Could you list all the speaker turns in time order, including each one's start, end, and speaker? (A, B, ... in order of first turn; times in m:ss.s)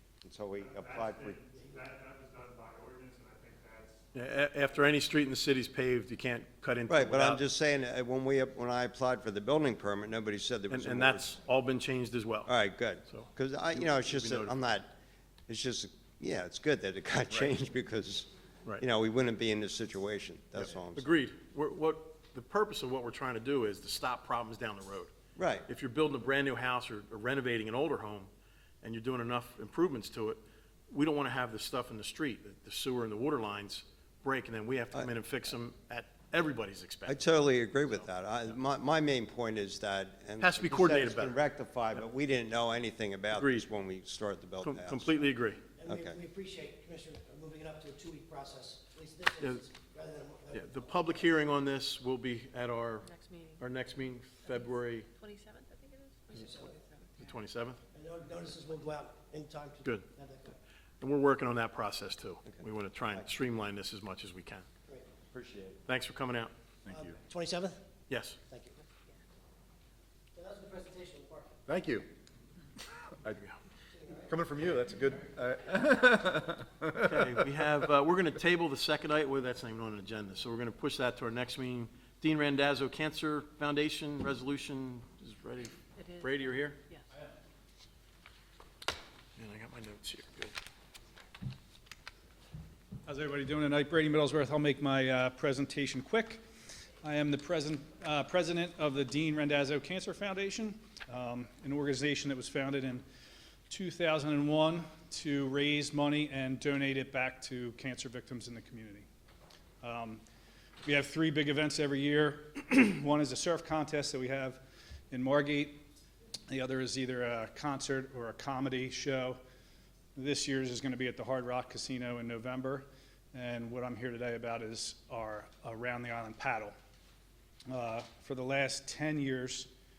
0:00.2-0:01.5 A
0:00.6-0:04.1 B
0:04.1-0:07.4 C
0:06.9-0:11.3 A
0:10.7-0:12.5 C
0:12.4-0:14.9 A
0:13.1-0:14.6 C
0:15.5-0:21.1 A
0:20.6-0:25.1 C
0:25.4-0:25.7 A
0:25.7-0:28.3 C
0:28.8-0:38.1 C
0:37.0-0:45.3 A
0:40.4-0:41.4 C
0:43.3-0:43.6 C
0:44.6-0:45.6 C
0:45.8-0:51.3 D
0:45.8-0:46.2 A
0:50.5-0:55.1 C
0:53.0-0:53.7 E
0:54.4-0:57.4 E
0:56.3-0:56.8 D
0:57.2-0:57.8 C
0:57.9-1:00.6 D
1:01.0-1:04.7 C
1:02.5-1:03.3 A
1:05.3-1:05.8 A
1:05.8-1:06.5 C
1:06.8-1:07.8 D
1:08.1-1:08.4 C
1:08.5-1:08.8 D
1:10.3-1:11.6 D
1:11.7-1:12.1 F
1:13.0-1:13.4 F
1:13.2-1:13.6 C
1:13.9-1:14.4 D
1:14.3-1:17.5 F
1:17.0-1:26.8 C
1:26.0-1:27.0 E
1:29.4-1:30.6 C
1:33.0-1:36.4 G
1:37.0-1:43.0 G
1:43.7-1:49.1 G
1:49.8-1:50.2 G
1:50.8-1:55.8 G
1:56.5-1:59.4 G
2:00.2-2:06.7 G
2:07.7-2:09.7 G